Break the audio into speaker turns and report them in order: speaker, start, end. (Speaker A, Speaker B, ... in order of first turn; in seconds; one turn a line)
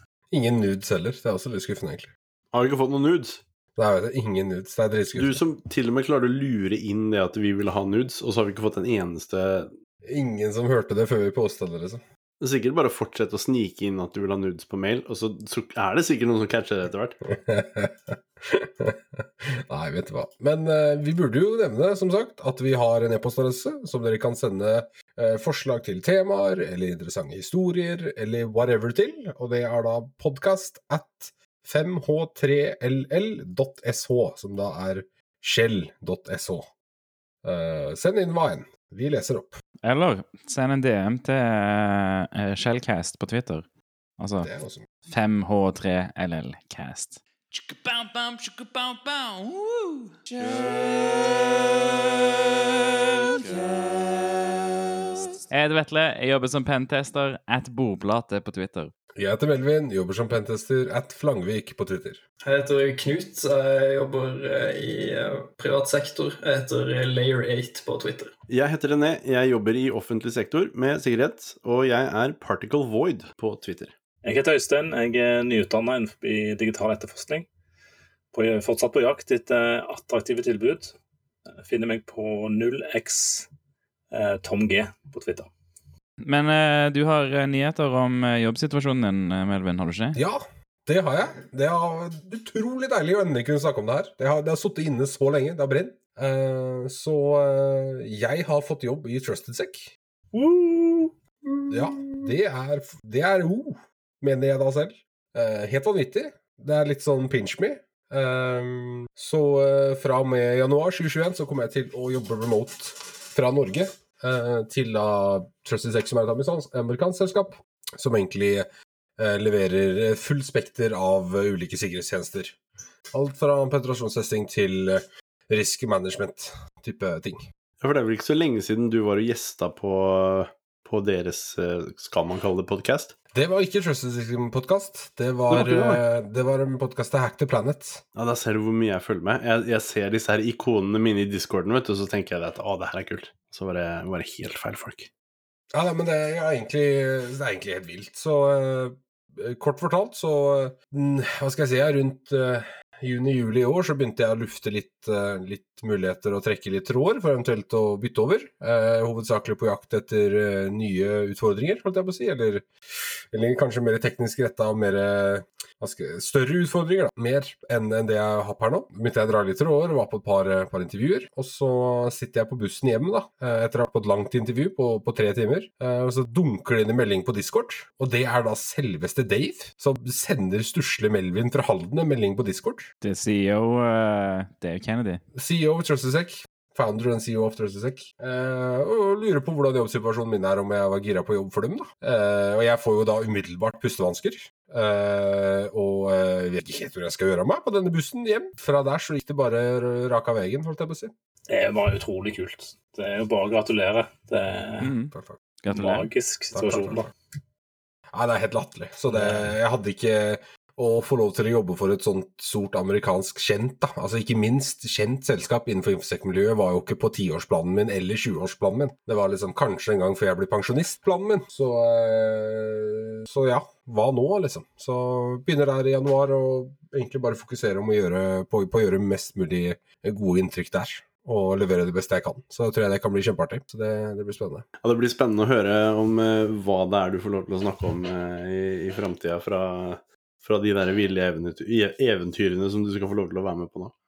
Speaker A: 0.3-2.1
Speaker B: 2.5-3.4
Speaker A: 3.8-5.4
Speaker B: 5.2-9.7
Speaker A: 10.1-12.0
Speaker B: 12.4-17.2
Speaker A: 17.3-36.7
Speaker A: 37.4-39.6
Speaker C: 39.8-43.7
Speaker C: 44.2-44.5
Speaker A: 44.4-44.9
Speaker C: 45.1-51.6
Speaker C: 53.0-54.4
Speaker C: 55.5-58.9
Speaker A: 59.2-62.2
Speaker D: 62.4-68.3
Speaker B: 68.5-73.9
Speaker E: 74.2-77.5
Speaker E: 78.3-81.0
Speaker E: 81.6-83.5
Speaker E: 84.1-85.5
Speaker C: 86.2-90.2
Speaker A: 90.2-99.9
Speaker E: 100.3-101.1
Speaker A: 101.7-118.7
Speaker A: 119.2-122.6
Speaker A: 123.1-127.5
Speaker B: 127.8-133.2
Speaker A: 133.3-138.0
Speaker B: 135.5-136.0
Speaker B: 138.2-145.1
Speaker A: 145.7-182.9
Speaker C: 183.0-185.2
Speaker A: 185.3-201.1
Speaker E: 201.5-204.9
Speaker C: 204.8-206.1
Speaker A: 205.1-205.4
Speaker E: 205.7-207.1
Speaker A: 206.5-207.1
Speaker A: 208.1-234.7
Speaker E: 209.1-209.5
Speaker B: 234.8-243.9